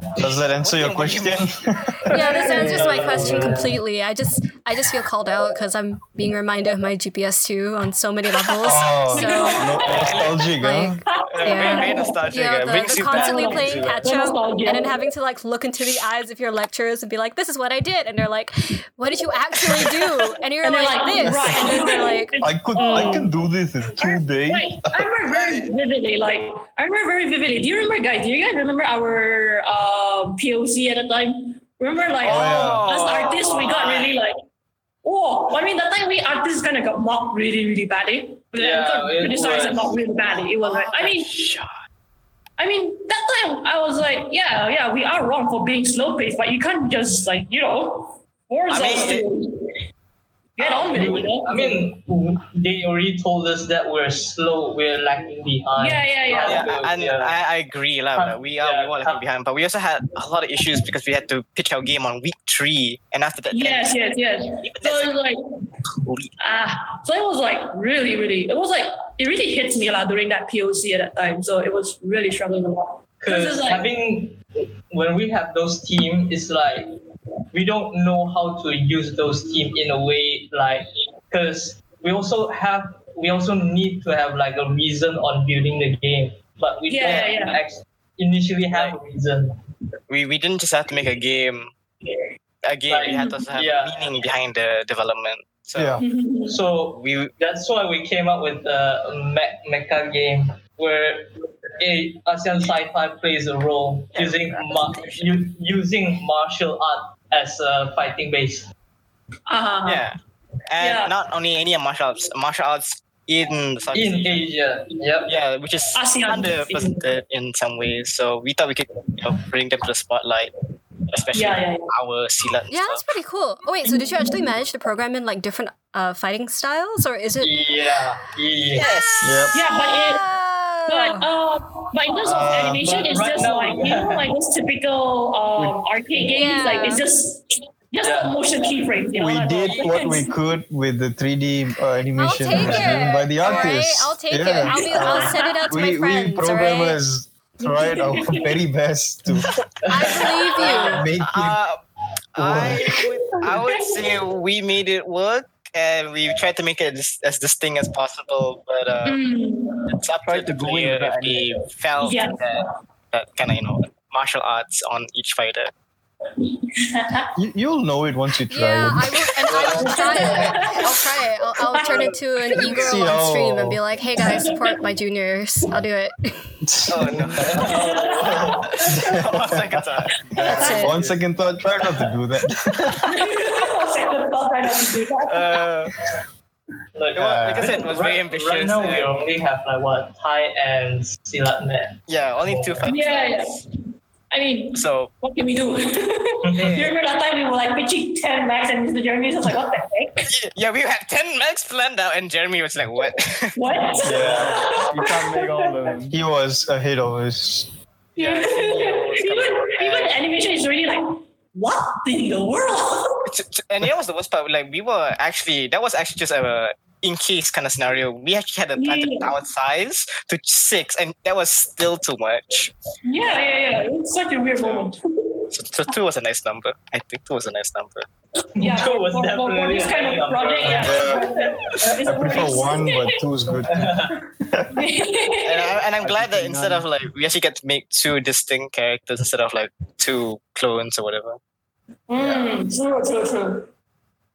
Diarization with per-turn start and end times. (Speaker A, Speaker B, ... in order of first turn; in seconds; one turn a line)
Speaker A: 0.2-2.4
Speaker B: 0.2-1.5
Speaker C: 2.1-9.6
Speaker D: 2.2-2.9
Speaker B: 2.5-3.3
Speaker E: 2.5-3.8
Speaker A: 8.6-11.0
Speaker D: 9.1-10.2
Speaker B: 9.8-10.4
Speaker C: 10.6-23.2
Speaker D: 11.1-12.2
Speaker B: 11.3-14.1
Speaker D: 12.9-15.0
Speaker D: 20.6-23.4
Speaker A: 21.3-21.7
Speaker A: 22.4-25.1
Speaker D: 24.0-34.4
Speaker B: 25.4-25.6
Speaker A: 32.2-32.9
Speaker B: 32.2-34.0
Speaker E: 33.6-34.2
Speaker D: 35.0-41.4
Speaker E: 38.6-40.0
Speaker B: 40.3-41.8
Speaker D: 42.6-49.8
Speaker B: 48.7-49.2
Speaker D: 50.6-51.9
Speaker E: 50.6-57.3
Speaker D: 55.8-56.7
Speaker B: 56.4-63.9
Speaker E: 58.1-59.2
Speaker D: 63.5-65.4
Speaker B: 64.6-65.1
Speaker B: 66.0-66.3
Speaker D: 66.4-73.8
Speaker E: 73.2-74.4
Speaker E: 74.9-76.9
Speaker E: 77.5-89.5
Speaker D: 86.9-87.6
Speaker B: 88.7-89.0
Speaker B: 90.1-91.7
Speaker B: 92.6-96.0
Speaker E: 92.9-94.1
Speaker D: 93.0-93.4
Speaker A: 95.7-96.0
Speaker D: 96.0-96.6
Speaker E: 96.5-108.7
Speaker B: 96.9-97.3
Speaker B: 104.1-105.2
Speaker D: 109.5-110.1
Speaker B: 109.8-110.2
Speaker B: 110.7-114.5
Speaker D: 110.8-111.1
Speaker E: 113.9-115.3
Speaker B: 115.3-120.5
Speaker D: 115.9-117.1
Speaker B: 121.1-123.0
Speaker D: 121.3-121.8
Speaker C: 122.7-127.5
Speaker D: 123.8-124.4
Speaker E: 127.4-128.9
Speaker B: 128.7-129.6
Speaker A: 129.2-129.6
Speaker D: 129.5-130.2
Speaker C: 129.7-131.3
Speaker D: 130.9-140.3
Speaker A: 132.2-132.9
Speaker E: 132.5-134.3
Speaker C: 136.3-137.0
Speaker E: 138.0-138.3
Speaker A: 139.1-149.5
Speaker E: 139.7-140.0
Speaker C: 142.2-147.0
Speaker E: 142.6-143.1
Speaker D: 144.4-145.7
Speaker D: 147.6-148.6
Speaker B: 149.4-151.8
Speaker E: 149.8-151.0
Speaker C: 149.9-151.0
Speaker A: 150.9-151.6
Speaker B: 152.3-159.2
Speaker A: 152.3-152.9
Speaker D: 153.7-154.0
Speaker D: 159.0-159.9
Speaker B: 159.9-165.7
Speaker F: 160.2-161.5
Speaker D: 162.0-162.6
Speaker D: 166.4-167.3
Speaker A: 167.3-169.1
Speaker C: 168.5-176.5
Speaker B: 169.5-170.6
Speaker D: 169.5-171.0
Speaker E: 170.2-170.5
Speaker D: 171.8-172.1
Speaker A: 172.7-173.8
Speaker D: 174.2-174.7
Speaker A: 176.6-177.7
Speaker B: 176.9-177.8
Speaker E: 177.4-178.7
Speaker D: 177.5-178.9
Speaker B: 178.7-181.1
Speaker A: 178.9-183.0
Speaker D: 180.2-180.9
Speaker C: 180.4-180.9
Speaker E: 180.8-181.1
Speaker D: 183.0-185.7
Speaker B: 185.2-185.9
Speaker E: 186.9-192.8
Speaker B: 187.1-189.3
Speaker A: 187.2-187.8
Speaker B: 192.1-193.4
Speaker D: 192.8-193.7
Speaker D: 194.3-200.3
Speaker B: 194.7-195.1
Speaker E: 196.4-196.9
Speaker B: 196.6-196.9
Speaker B: 200.2-204.6
Speaker D: 203.6-205.4
Speaker A: 204.0-204.7
Speaker F: 204.8-206.1
Speaker A: 206.1-207.7
Speaker B: 208.2-210.2
Speaker D: 208.2-213.2
Speaker B: 213.3-222.7
Speaker D: 218.8-219.3
Speaker D: 223.0-225.5
Speaker B: 224.6-224.9
Speaker B: 225.5-228.1
Speaker E: 228.6-232.0
Speaker D: 228.6-233.3
Speaker A: 230.7-231.3
Speaker A: 232.0-234.8
Speaker E: 233.5-234.2
Speaker D: 234.7-235.8
Speaker B: 235.4-241.4
Speaker A: 236.0-236.9
Speaker D: 242.1-243.7
Speaker A: 242.2-242.5